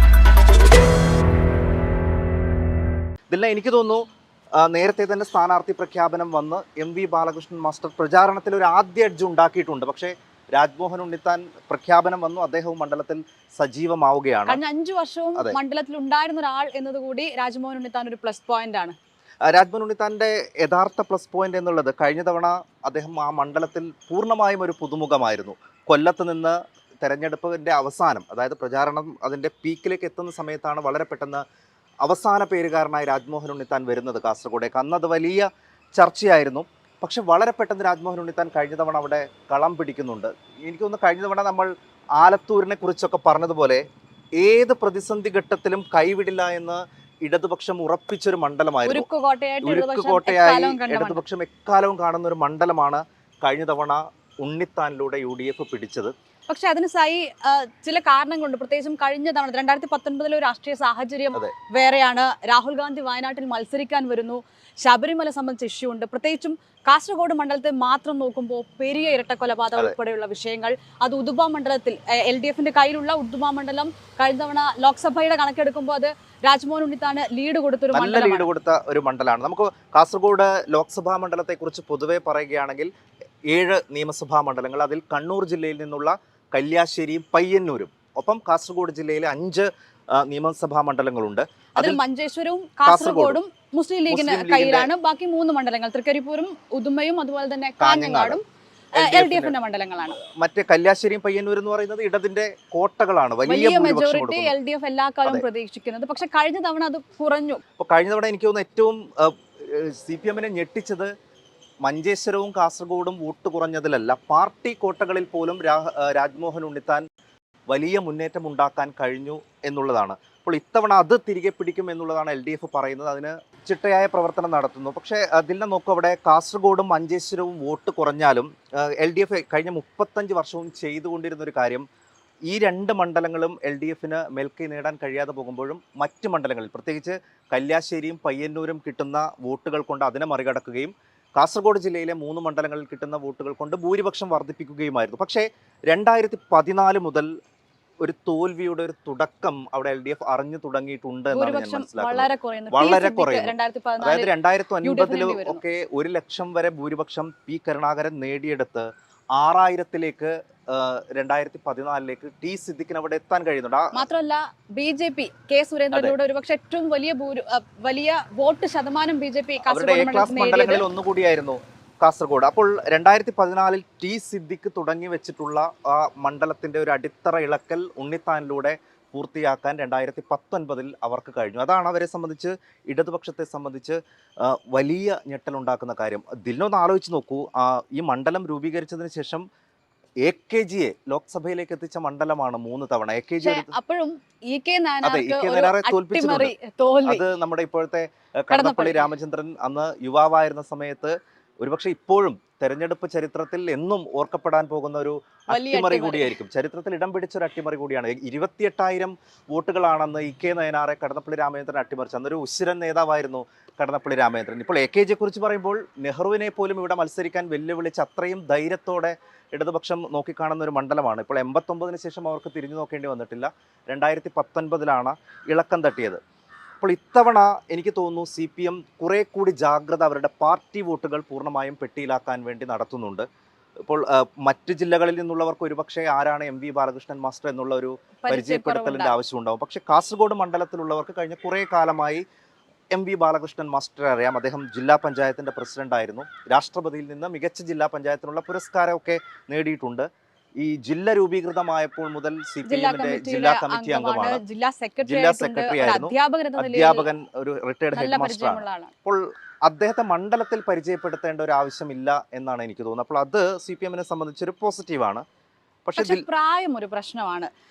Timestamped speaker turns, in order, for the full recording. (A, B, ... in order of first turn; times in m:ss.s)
0:03.3-0:14.6 A
0:14.5-0:18.9 B
0:19.4-0:31.4 A
0:32.0-0:43.8 A
0:44.4-0:49.1 A
0:48.8-0:51.2 B
0:49.6-0:56.1 A
0:56.5-1:18.5 B
1:17.9-1:22.9 A
1:23.5-1:32.0 A
1:31.8-1:38.4 B
1:32.8-1:33.4 A
1:34.1-1:34.9 A
1:37.8-1:38.4 A
1:38.9-1:40.2 B
1:39.0-1:39.5 A
1:40.2-1:44.5 A
1:43.4-1:47.6 B
1:47.8-1:51.1 A
1:51.8-1:57.0 A
1:57.7-2:11.8 A
2:12.5-2:27.3 A
2:28.0-2:44.0 A
2:31.3-2:34.3 B
2:34.8-2:35.6 B
2:43.9-2:50.8 B
2:49.6-3:09.4 A
3:10.2-3:13.7 A
3:13.4-3:17.2 B
3:15.0-3:16.5 A
3:17.0-3:46.2 A
3:18.5-3:19.1 B
3:25.5-3:26.3 B
3:46.8-3:53.2 A
3:53.8-4:02.2 A
3:58.2-3:59.2 B
4:02.9-4:10.0 A
4:10.6-4:14.4 A
4:12.6-4:17.1 B
4:15.0-4:25.2 A
4:17.9-4:18.9 B
4:25.8-4:26.2 A
4:26.0-4:27.5 B